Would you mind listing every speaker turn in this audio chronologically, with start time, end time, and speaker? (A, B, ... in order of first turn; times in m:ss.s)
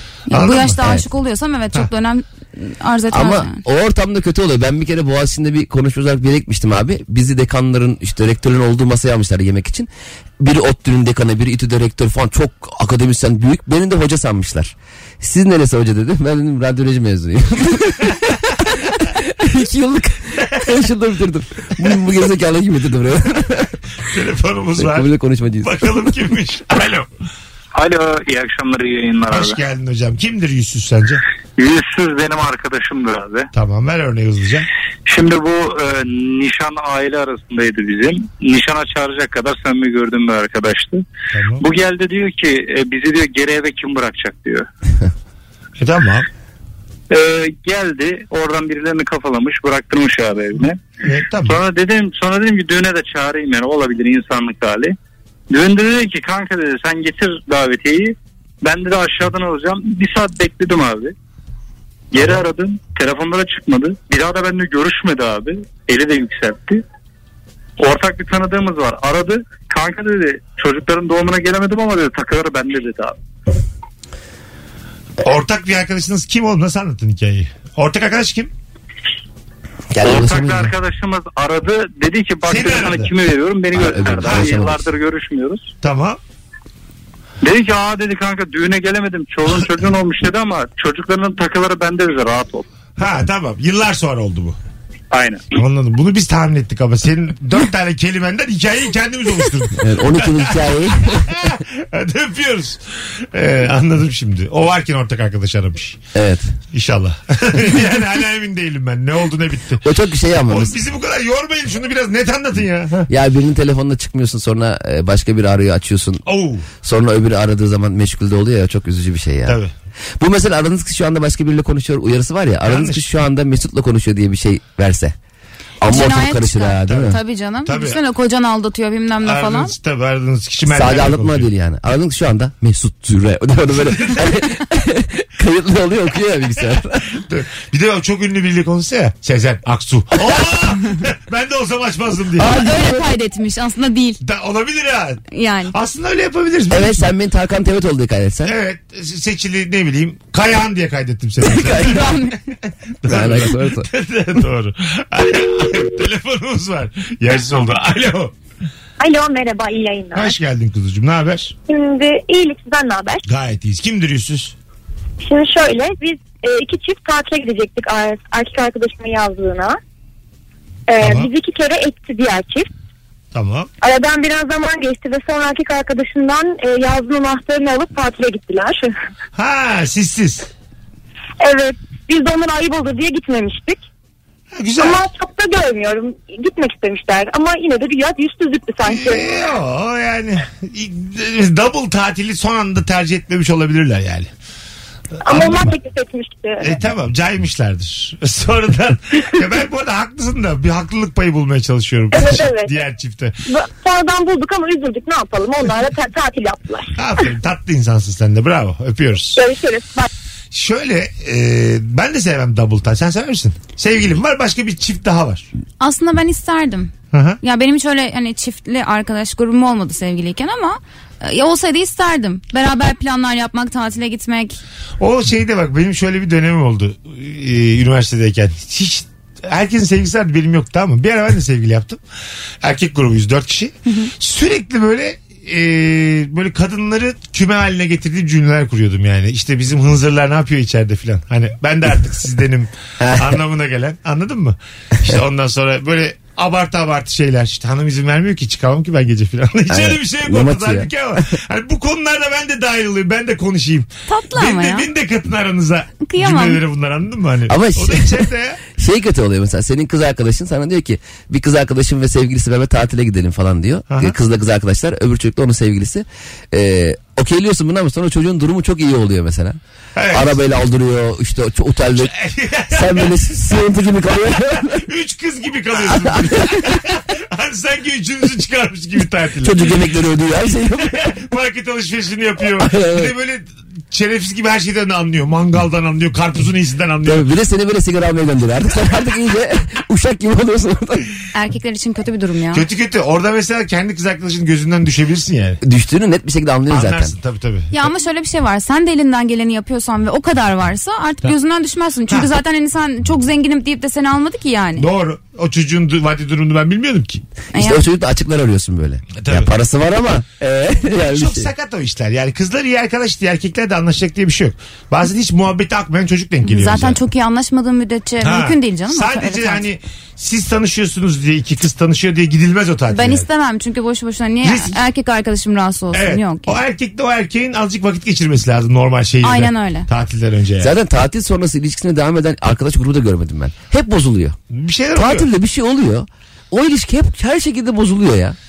0:00.3-0:03.6 A
0:00.3-0:00.8 B
0:03.1-0:18.4 C
0:19.0-0:23.8 C
0:24.1-0:25.1 B
0:24.8-0:26.1 C
0:25.6-0:27.1 B
0:27.8-0:29.6 D
0:29.3-0:31.2 B
0:31.6-0:33.5 D
0:33.5-0:34.7 B
0:35.1-0:41.0 D
0:41.3-0:41.6 B
0:41.6-0:44.7 D
0:45.8-0:46.3 B
0:47.1-0:50.9 D
0:51.0-0:51.6 B
0:51.4-0:55.0 D
0:55.5-1:01.1 D
1:02.1-1:06.8 D
1:07.8-1:13.2 D
1:15.2-1:18.5 B
1:19.9-1:20.7 C
1:20.0-1:25.7 D
1:22.5-1:23.1 B
1:23.8-1:24.9 C
1:24.2-1:24.6 B
1:25.8-1:26.2 B
1:27.4-1:32.7 D
1:33.0-1:34.6 B
1:35.1-1:35.4 D
1:35.5-1:40.5 B
1:39.8-1:41.4 C
1:41.2-1:46.0 B
1:46.2-1:46.5 C
1:46.7-1:49.8 B
1:49.8-1:50.8 C
1:50.5-1:53.1 B
1:53.1-1:56.2 C
1:56.3-1:56.7 B
1:56.8-1:59.6 C
1:59.5-1:59.7 B
2:00.2-2:05.2 C
2:02.6-2:03.0 B
2:05.8-2:07.2 C
2:05.9-2:09.8 A
2:06.9-2:08.0 B
2:09.2-2:11.5 B
2:10.7-2:17.1 C
2:13.8-2:14.3 B
2:17.1-2:22.6 B
2:22.4-2:23.1 C
2:22.4-2:24.2 A
2:24.2-2:27.0 B
2:25.3-2:25.7 A
2:26.7-2:28.6 C
2:28.4-2:32.2 B
2:31.5-2:32.0 C
2:31.6-2:32.4 A
2:33.0-2:38.3 B
2:33.1-2:33.9 C
2:39.0-2:40.3 E
2:40.1-2:41.6 B
2:41.7-2:43.2 E
2:43.2-2:44.6 B
2:45.2-2:49.8 E
2:50.9-2:52.7 E
2:51.0-2:51.3 B
2:53.3-2:53.7 B
2:53.8-2:58.9 E
2:59.4-3:00.5 B
3:01.4-3:03.8 E
3:04.6-3:05.0 B
3:04.8-3:09.2 E
3:08.8-3:14.3 B
3:15.2-3:16.7 E
3:15.2-3:15.7 B
3:16.6-3:23.4 B
3:22.1-3:22.7 E
3:23.5-3:26.9 E
3:27.0-3:29.4 B
3:29.4-3:30.1 E
3:30.5-3:35.5 B
3:35.8-3:44.6 A
3:37.1-3:37.4 B
3:45.0-3:52.0 B
3:52.6-4:18.6 B
4:03.0-4:03.4 C
4:09.7-4:10.9 C
4:14.1-4:14.9 A
4:16.0-4:16.6 A
4:17.5-4:29.6 C
4:23.9-4:24.2 B
4:30.0-4:30.4 B
4:30.1-4:32.1 C
4:32.0-4:33.1 B
4:32.7-4:34.8 C
4:34.7-4:39.6 B
4:35.8-4:36.8 C
4:39.4-4:41.0 C
4:40.9-4:47.2 B
4:42.6-4:43.1 C
4:47.0-4:51.1 C
4:51.3-4:52.7 A
4:52.5-4:55.6 B
4:55.6-4:57.2 C
4:56.7-4:57.7 B
4:57.7-5:04.9 A
5:04.8-5:07.2 B
5:07.5-5:07.8 A
5:07.6-5:11.5 C
5:09.1-5:09.5 B
5:11.0-5:17.0 B
5:16.4-5:19.6 A
5:18.2-5:23.2 B
5:22.9-5:26.6 A
5:24.4-5:24.8 B
5:25.9-5:30.7 B
5:29.2-5:29.9 A
5:30.6-5:34.4 C
5:34.5-5:35.3 B
5:34.9-5:38.4 C